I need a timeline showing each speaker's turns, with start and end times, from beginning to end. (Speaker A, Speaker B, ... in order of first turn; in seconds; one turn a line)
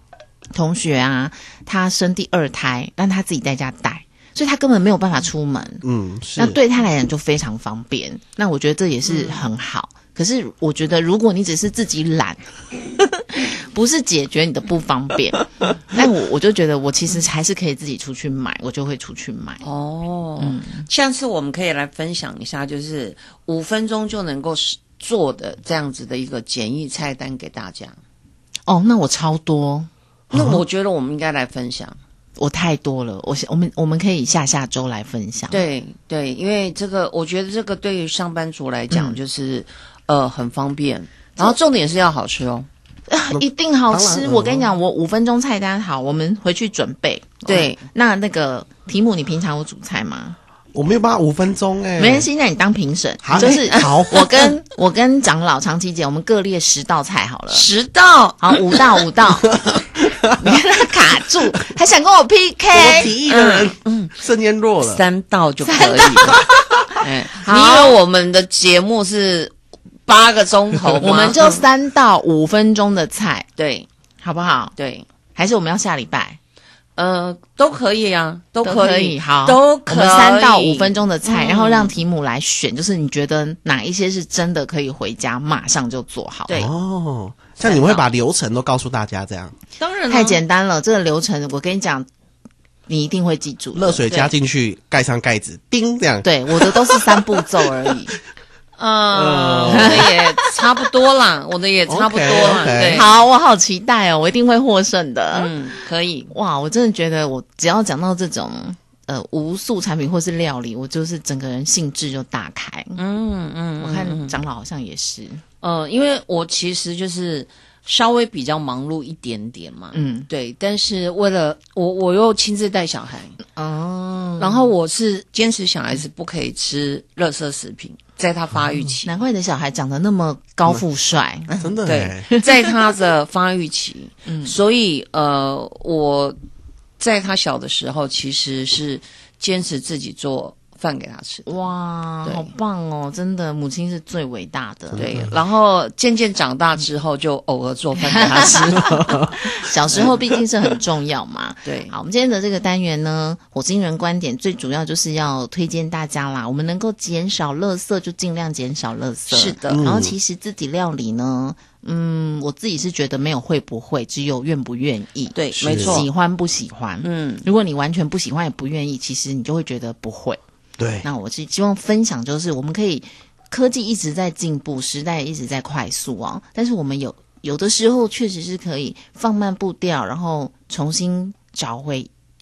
Speaker A: 0.5-5.8
Speaker B: 5.8-6.6
Speaker A: 6.4-19.6
Speaker C: 9.1-9.5
Speaker C: 19.6-28.0
Speaker A: 20.4-20.9
Speaker A: 28.7-29.9
Speaker C: 30.3-32.0
Speaker B: 30.3-30.6
Speaker A: 32.4-35.6
Speaker C: 35.5-42.7
Speaker A: 38.9-39.2
Speaker A: 43.1-50.4
Speaker B: 43.3-44.7
Speaker C: 47.5-47.8
Speaker B: 50.7-52.3
Speaker A: 52.0-57.7
Speaker B: 53.2-54.3
Speaker C: 53.4-54.0
Speaker C: 57.5-58.7
Speaker A: 58.4-59.5
Speaker B: 59.5-60.3
Speaker A: 60.4-63.1
Speaker B: 62.7-65.0
Speaker C: 63.2-64.2
Speaker C: 64.8-66.5
Speaker A: 65.6-68.0
Speaker C: 67.0-69.5
Speaker C: 70.1-71.6
Speaker A: 71.0-73.5
Speaker C: 73.6-73.9
Speaker A: 74.2-74.7
Speaker C: 74.8-75.1
Speaker A: 75.3-76.4
Speaker C: 77.0-82.0
Speaker A: 78.6-86.7
Speaker B: 86.5-89.6
Speaker C: 87.6-88.1
Speaker C: 89.8-90.4
Speaker A: 90.1-92.1
Speaker A: 92.9-94.1
Speaker B: 93.8-97.2
Speaker C: 94.1-94.3
Speaker A: 96.2-98.2
Speaker C: 98.8-103.1
Speaker B: 99.1-100.1
Speaker A: 99.7-100.1
Speaker B: 101.9-103.1
Speaker A: 102.9-105.5
Speaker C: 105.3-106.3
Speaker A: 106.3-113.0
Speaker C: 113.0-114.4
Speaker A: 113.8-115.4
Speaker C: 115.6-123.4
Speaker A: 119.9-120.3
Speaker A: 123.6-124.7
Speaker C: 124.4-129.1
Speaker A: 129.0-131.5
Speaker C: 131.5-136.4
Speaker B: 131.6-132.3
Speaker A: 134.3-134.6
Speaker C: 137.0-141.5
Speaker A: 141.5-145.2
Speaker C: 142.2-142.5
Speaker B: 144.9-145.3
Speaker C: 145.0-149.1
Speaker A: 148.0-170.4
Speaker B: 148.6-149.4
Speaker C: 149.9-150.2
Speaker C: 151.7-151.9
Speaker C: 159.3-159.9
Speaker B: 159.7-160.2
Speaker C: 165.3-166.1
Speaker B: 165.5-166.1
Speaker C: 167.0-167.5
Speaker B: 170.8-171.1
Speaker A: 171.0-182.1